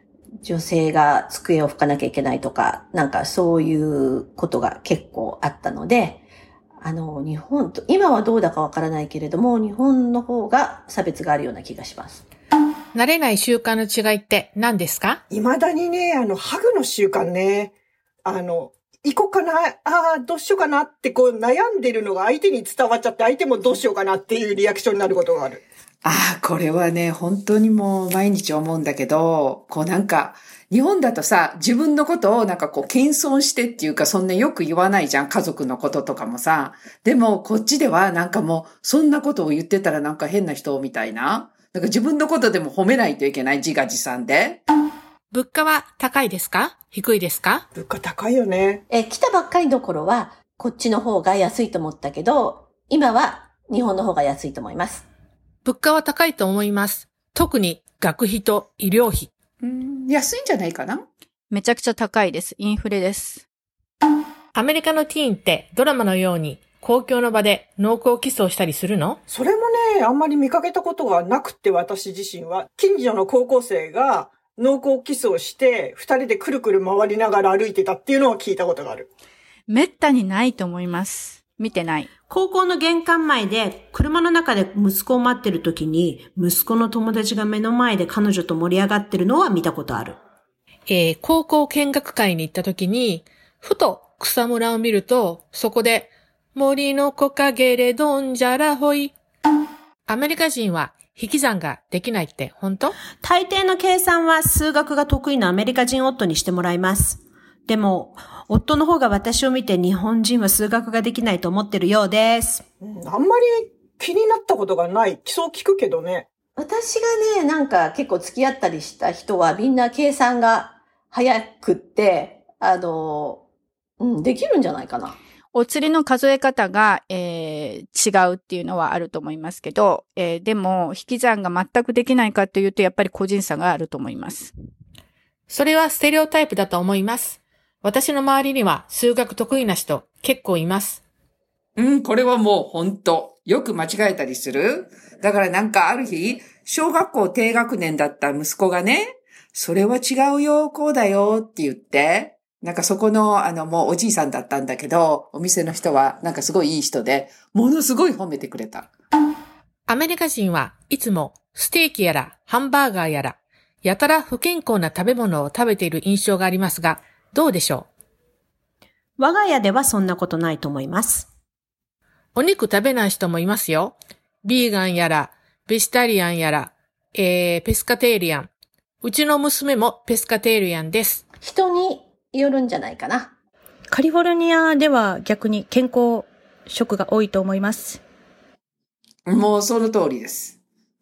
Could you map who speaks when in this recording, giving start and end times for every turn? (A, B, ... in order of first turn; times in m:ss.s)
0:00.4-0:06.2 A
0:06.8-0:12.2 A
0:12.9-0:15.2 B
0:15.3-0:17.7 C
0:18.2-0:25.6 C
0:26.0-0:44.6 D
0:45.3-0:47.6 B
0:47.7-0:48.8 C
0:48.9-0:55.0 A
0:55.6-0:59.3 B
0:59.6-1:01.0 D
1:01.5-1:03.4 E
1:04.5-1:09.2 B
1:09.3-1:19.1 C
1:19.7-1:22.1 E
1:22.3-1:30.2 F
1:30.9-1:39.1 B
1:40.1-1:43.0 B
1:43.2-1:52.6 F
1:52.8-1:56.3 C
1:56.6-2:03.4 A
2:04.0-2:05.2 A
2:05.5-2:14.5 E
2:15.5-2:21.0 B
2:21.8-2:38.9 D
2:39.9-2:47.9 B
2:49.2-2:51.3 F
2:52.4-2:58.5 B
2:59.0-3:01.2 B
3:01.4-3:03.3 A
3:03.9-3:08.0 G
3:09.3-3:10.6 D